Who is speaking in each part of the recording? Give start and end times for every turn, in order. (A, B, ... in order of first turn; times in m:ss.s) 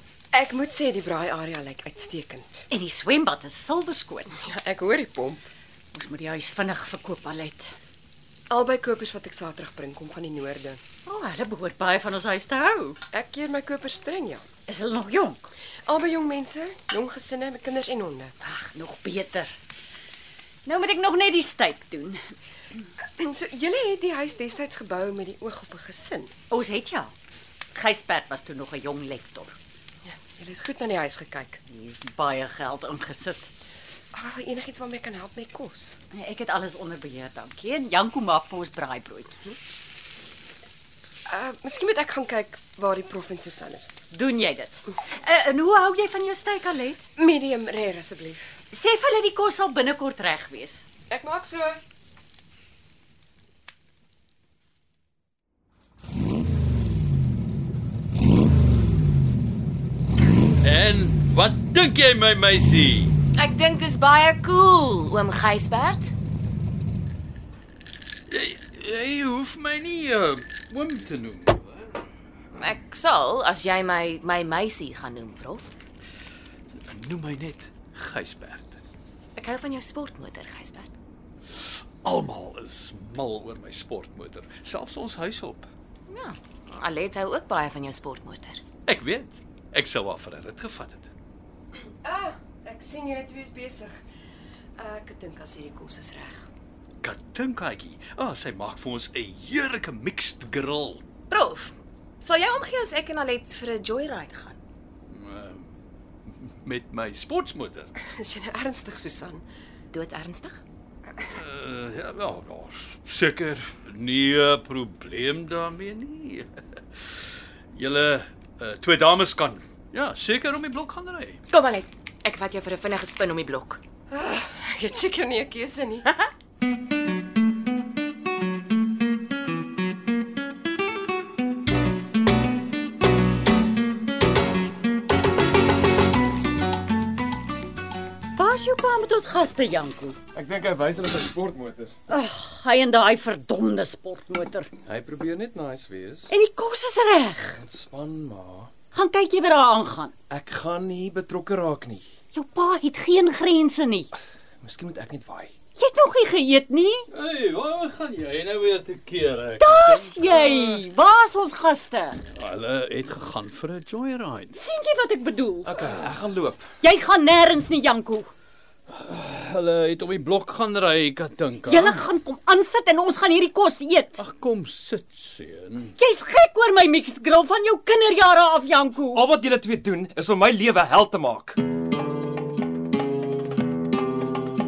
0:00.3-0:02.6 A
0:02.7-0:04.4 B
0:04.4-0:05.4 A
0:05.9-0:07.7 B
0:08.5-0:10.8 A
0:11.0-0:13.0 B
0:13.1-0:14.4 A
0:14.7-0:15.5 B
0:15.9-0:18.3 A
0:18.4-0:19.6 B
0:20.7-0:22.2 B
0:23.2-0:26.3 A
0:26.5-0:27.1 B
0:27.7-0:29.6 B
0:30.0-0:31.6 A
0:31.7-0:33.5 B
0:34.1-0:36.0 A
0:36.1-0:39.6 B
0:41.3-0:43.9 A
0:44.1-0:47.0 B
0:47.2-0:48.6 A
0:48.7-0:50.8 B
0:51.1-0:51.8 A
1:00.6-1:03.2 C
1:03.3-1:06.1 D
1:08.3-1:12.0 C
1:12.6-1:15.7 D
1:16.7-1:18.8 C
1:19.4-1:20.9 D
1:22.0-1:25.7 C
1:26.1-1:28.6 D
1:28.9-1:31.1 C
1:32.0-1:34.0 A
1:34.8-1:36.5 A
1:37.0-1:41.0 C
1:41.3-1:44.6 D
1:45.1-1:45.7 C
1:46.3-1:47.9 C
1:48.0-1:49.4 A
1:49.9-1:50.6 D
1:51.2-1:56.5 C
1:57.7-2:01.4 C
2:01.5-2:03.8 D
2:04.1-2:06.1 A
2:18.3-2:20.2 B
2:20.3-2:22.0 E
2:22.1-2:24.7 B
2:24.9-2:26.3 E
2:26.3-2:27.6 B
2:27.6-2:28.7 E
2:28.9-2:30.1 B
2:30.3-2:32.1 E
2:32.3-2:34.1 B
2:34.6-2:35.6 E
2:35.8-2:37.1 B
2:37.1-2:40.8 C
2:39.6-2:42.2 B
2:42.4-2:44.6 C
2:44.5-2:45.7 B
2:45.6-2:46.6 E
2:46.8-2:48.3 B
2:48.9-2:52.0 C
2:51.6-2:54.2 B
2:54.2-2:55.9 C
2:56.0-2:59.2 B
2:59.1-3:01.6 E